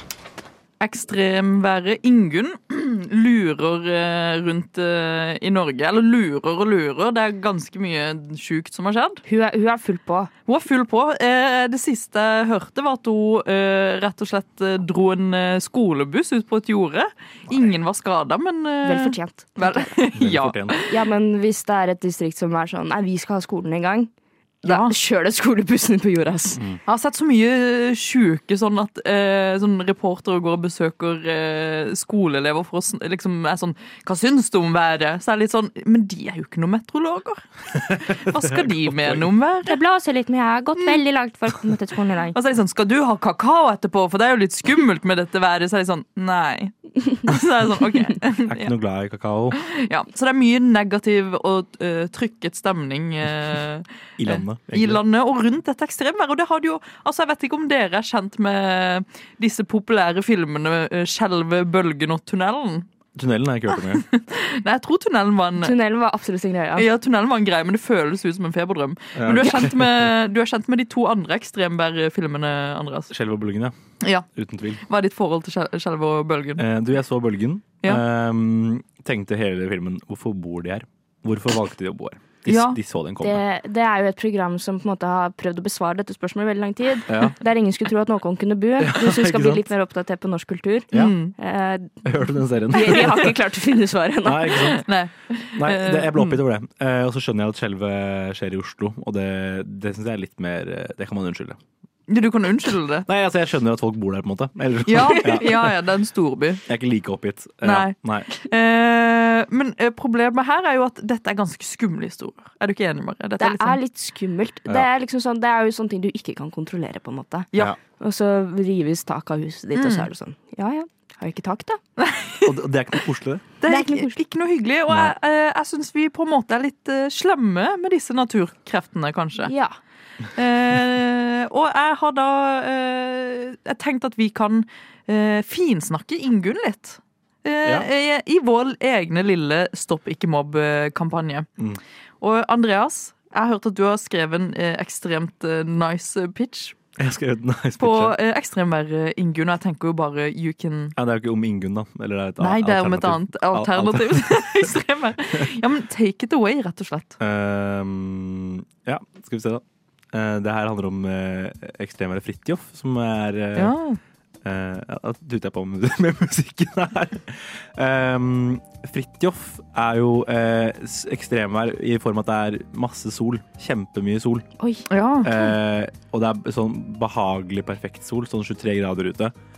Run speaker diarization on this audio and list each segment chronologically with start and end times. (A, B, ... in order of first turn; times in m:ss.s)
0:00.8-0:09.2 A
0:09.3-0:10.3 B
0:10.5-0:20.9 A
0:18.8-0:20.0 B
0:20.2-0:20.8 C
0:20.8-0:24.1 B
0:24.6-0:26.6 B
0:24.6-0:25.0 A
0:26.9-0:39.8 A
0:38.4-0:39.2 C
0:39.7-0:42.4 B
0:42.3-0:48.7 A
0:48.4-0:49.6 C
0:49.5-1:02.9 A
0:54.2-0:55.0 C
1:03.2-1:04.0 C
1:03.9-1:05.8 A
1:05.6-1:06.9 B
1:06.8-1:13.1 A
1:09.2-1:10.1 C
1:13.1-1:13.8 C
1:14.0-1:14.3 A
1:14.4-1:14.8 C
1:14.9-1:16.6 A
1:16.6-1:23.4 C
1:22.5-1:22.8 A
1:23.2-1:34.6 B
1:27.1-1:27.4 C
1:28.8-1:29.7 C
1:30.9-1:31.3 A
1:32.0-1:33.3 C
1:34.2-1:34.9 C
1:34.7-1:36.4 A
1:35.6-1:41.6 C
1:42.1-1:43.1 A
1:43.1-1:45.7 C
1:44.9-1:46.6 A
1:46.7-1:48.3 C
1:47.6-1:53.8 A
1:53.4-1:57.5 B
1:58.0-2:01.8 B
1:59.8-2:00.1 A
2:02.0-2:02.6 A
2:02.4-2:03.5 C
2:03.6-2:09.5 A
2:03.7-2:04.2 B
2:04.9-2:05.2 C
2:09.5-2:09.8 B
2:10.4-2:21.5 A
2:22.2-2:26.8 A
2:27.0-2:28.2 C
2:27.8-2:31.0 A
2:31.0-2:34.7 C
2:32.4-2:37.2 A
2:37.2-2:43.8 C
2:43.6-2:44.0 A
2:44.4-2:54.5 C
2:54.6-2:54.9 B
2:54.9-2:55.4 A
2:55.2-2:59.3 C